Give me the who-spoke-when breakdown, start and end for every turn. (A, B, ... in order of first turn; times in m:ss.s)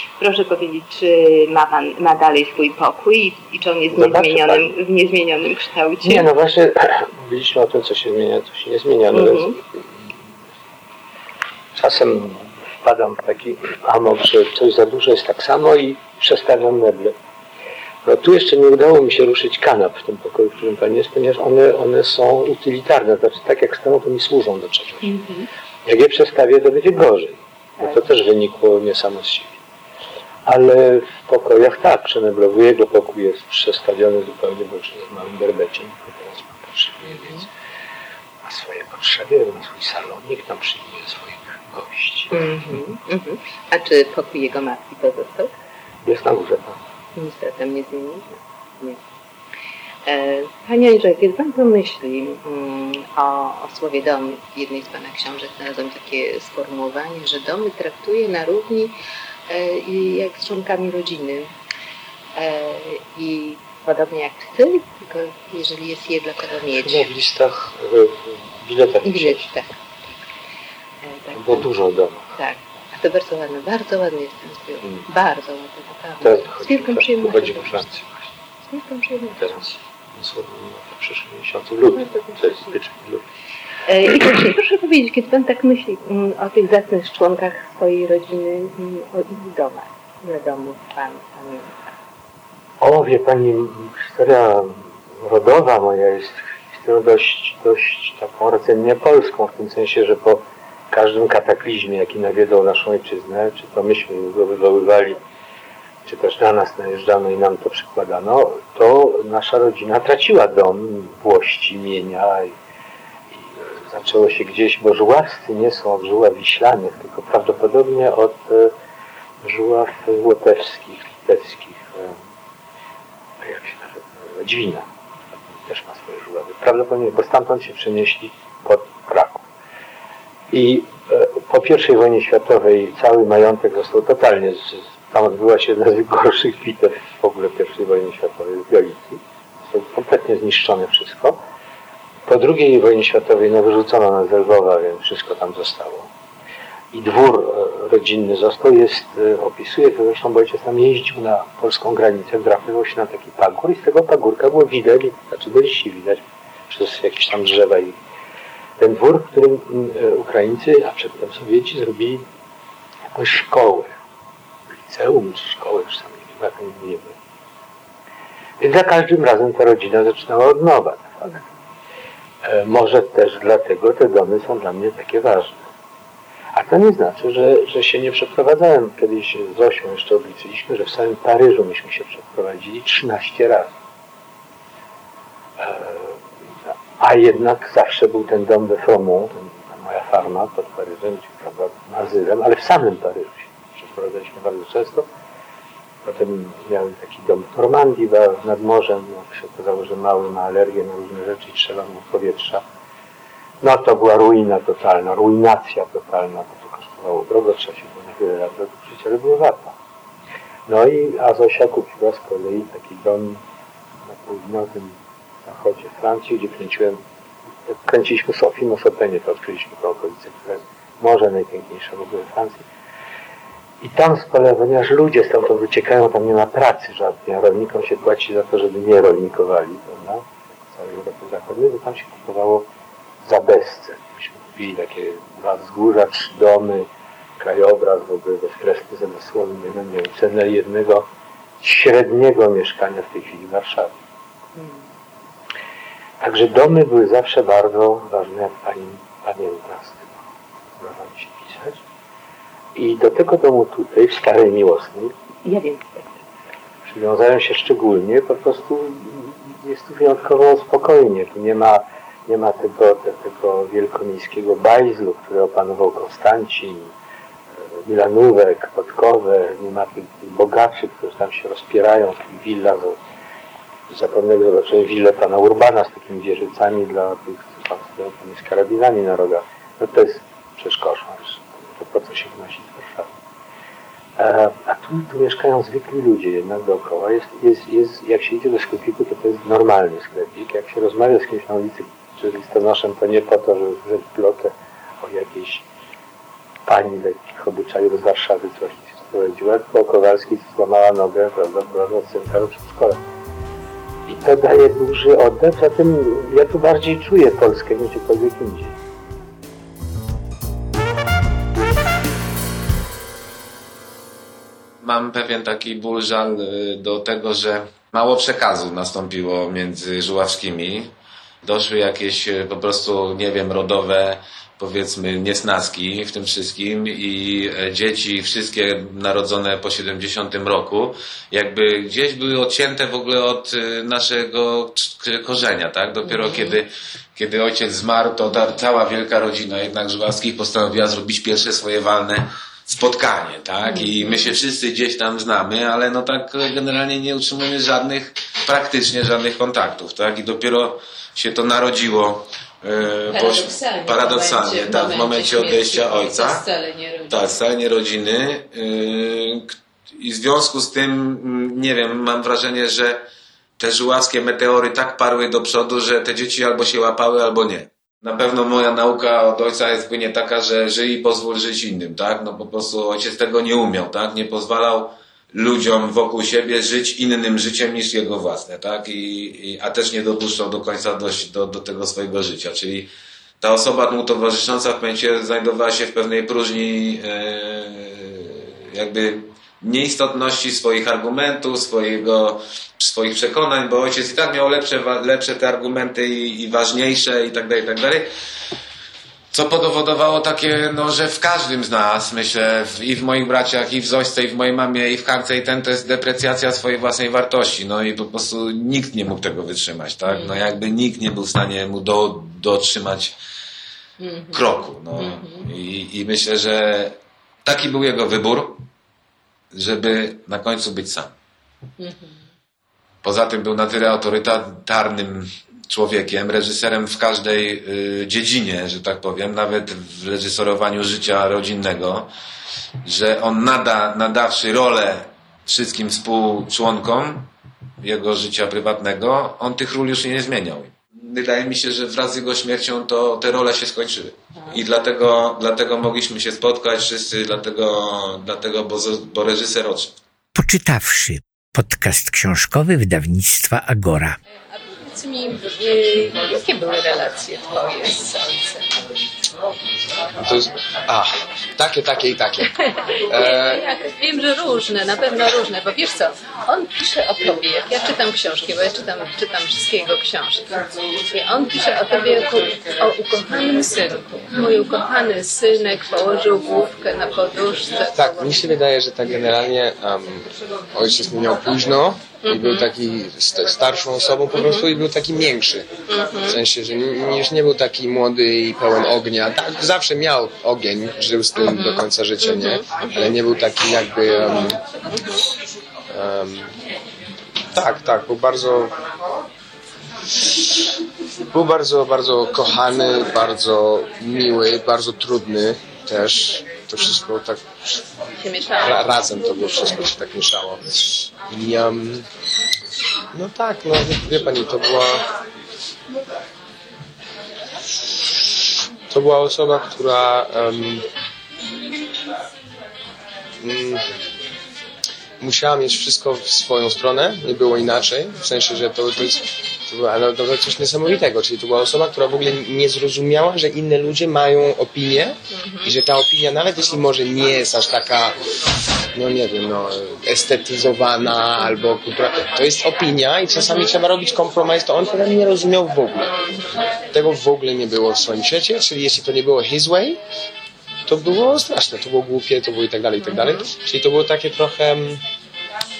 0:00.2-0:06.3 A
0:03.9-0:04.7 B
0:06.0-0:10.0 B
0:09.1-0:09.6 A
0:11.7-0:17.1 B
0:18.0-0:25.1 B
0:25.0-0:25.5 A
0:25.8-0:29.6 B
0:27.8-0:28.1 A
0:30.4-0:37.5 B
0:37.0-0:37.4 A
0:38.4-0:42.4 B
0:42.3-0:45.5 A
0:46.0-0:46.8 B
0:47.2-0:49.0 A
0:50.1-0:59.0 A
0:59.5-1:01.5 A
1:02.4-1:07.1 A
1:06.7-1:09.5 B
1:09.0-1:09.7 A
1:11.1-1:11.7 A
1:11.3-1:12.3 B
1:12.3-1:18.0 A
1:16.2-1:18.3 B
1:18.7-1:19.7 A
1:19.4-1:23.2 B
1:21.9-1:22.8 A
1:23.9-1:31.7 A
1:32.8-1:45.2 B
1:46.0-1:52.6 B
1:53.3-1:58.7 B
1:59.4-2:02.2 B
2:03.4-2:04.9 B
2:05.4-2:09.4 B
2:10.5-2:21.4 B
2:22.3-2:26.1 B
2:26.9-2:38.0 B
2:38.8-2:42.2 B
2:43.1-2:44.0 B
2:44.7-2:47.2 B
2:48.6-2:51.5 B
2:52.4-2:55.6 B
2:56.5-3:03.7 B
3:05.6-3:06.2 B
3:07.0-3:15.1 B
3:16.0-3:22.6 B
3:23.6-3:29.7 B
3:30.7-3:33.4 B
3:34.1-3:37.0 B
3:37.7-3:42.7 B
3:43.8-3:52.7 B
3:53.2-3:56.9 B
3:57.4-4:01.1 B
4:01.6-4:03.9 B
4:06.2-4:10.2 B
4:10.8-4:11.8 B
4:12.7-4:15.1 B
4:15.4-4:16.2 A
4:16.8-4:26.9 B
4:27.8-4:33.0 B
4:33.9-4:43.1 B
4:44.2-4:55.6 B
4:56.6-5:03.0 B
5:04.1-5:08.8 B
5:14.8-5:56.5 C
5:36.3-5:36.6 D
5:43.6-5:44.3 D
5:53.1-5:57.4 D
5:57.0-6:03.1 C
6:03.6-6:38.1 C
6:39.3-6:53.2 C
6:50.1-6:50.4 D
6:54.0-6:55.5 D
6:54.3-6:58.7 C
6:59.5-7:01.1 C
7:01.8-7:02.2 D
7:03.0-7:12.1 C
7:12.8-7:30.0 C
7:30.3-7:34.2 E
7:34.9-7:38.6 D
7:40.2-7:43.6 F
7:43.2-7:50.4 D
7:51.1-7:58.4 D
7:57.9-8:05.7 F
8:02.2-8:02.7 D
8:04.3-8:04.6 D
8:05.9-8:06.4 D
8:06.2-8:14.6 F
8:11.4-8:13.1 D
8:14.1-8:15.2 D
8:15.9-8:16.5 F
8:17.5-8:18.7 F
8:21.3-8:27.8 F
8:28.2-8:28.9 D
8:28.6-8:32.0 F
8:33.1-8:35.0 F
8:38.9-8:40.8 F
8:43.4-8:43.8 F
8:45.2-8:58.1 F
8:55.4-8:55.7 D
8:58.9-9:06.2 F
9:06.9-9:10.0 F
9:10.9-9:15.0 F
9:13.1-9:13.5 D